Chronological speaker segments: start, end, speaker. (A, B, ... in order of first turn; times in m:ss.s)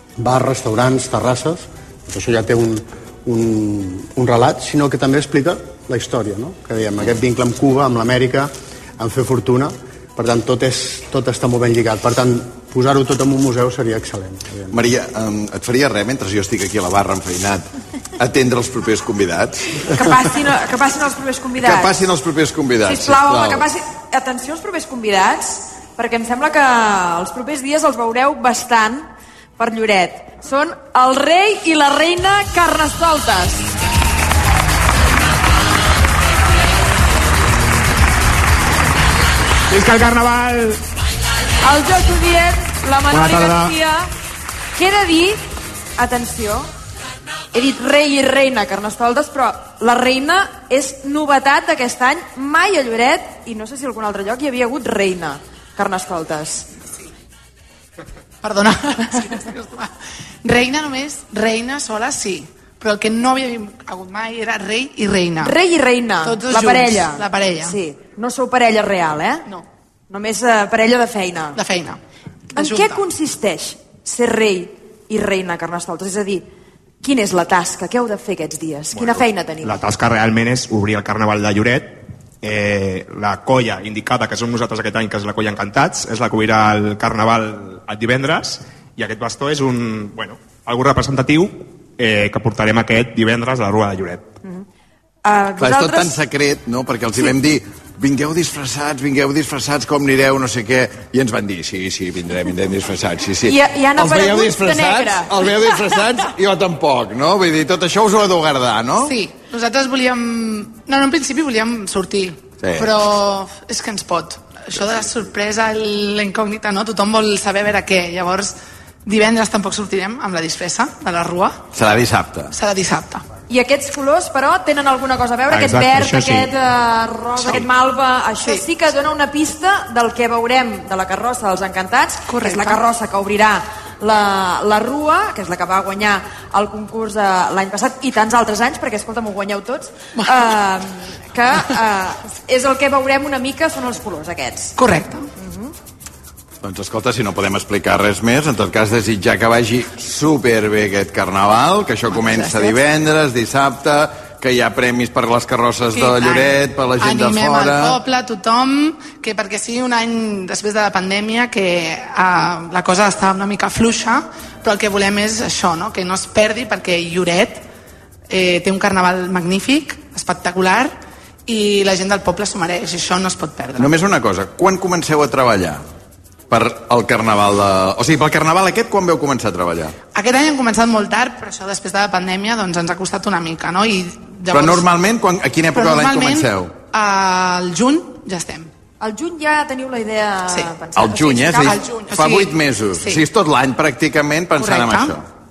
0:00.2-0:14.8 A
0:14.7-0:19.8 B
0:19.9-0:21.9 C
0:21.6-0:23.6 B
0:22.8-0:33.7 C
0:39.7-0:40.8 D
0:41.6-0:44.1 C
0:43.1-0:43.8 D
0:44.7-0:45.4 C
0:46.0-0:46.7 C
0:47.5-0:56.6 C
0:58.4-0:59.9 E
1:00.4-1:05.5 E
1:05.4-1:09.5 C
1:06.2-1:07.7 E
1:10.1-1:11.6 C
1:11.6-1:12.0 E
1:12.5-1:16.4 C
1:12.6-1:13.0 E
1:17.0-1:19.8 C
1:18.9-1:34.4 D
1:35.2-1:36.2 C
1:35.6-1:49.2 B
1:43.4-1:46.0 C
1:49.0-1:58.5 E
1:52.6-1:53.0 B
1:59.0-2:01.6 E
2:01.7-2:02.5 B
2:02.5-2:03.2 E
2:03.5-2:24.7 C
2:05.5-2:06.5 D
2:12.3-2:12.8 E
2:24.8-2:25.2 E
2:25.4-2:25.7 C
2:26.6-2:38.0 B
2:32.2-2:32.6 E
2:35.9-2:47.6 E
2:48.3-2:51.0 E
2:51.5-2:53.9 E
2:53.8-2:55.8 B
2:56.5-2:59.9 B
3:00.1-3:04.8 E
3:04.5-3:06.7 B
3:05.7-3:08.7 E
3:09.0-3:12.1 C
3:10.9-3:15.2 B
3:11.7-3:13.2 E
3:14.6-3:15.1 E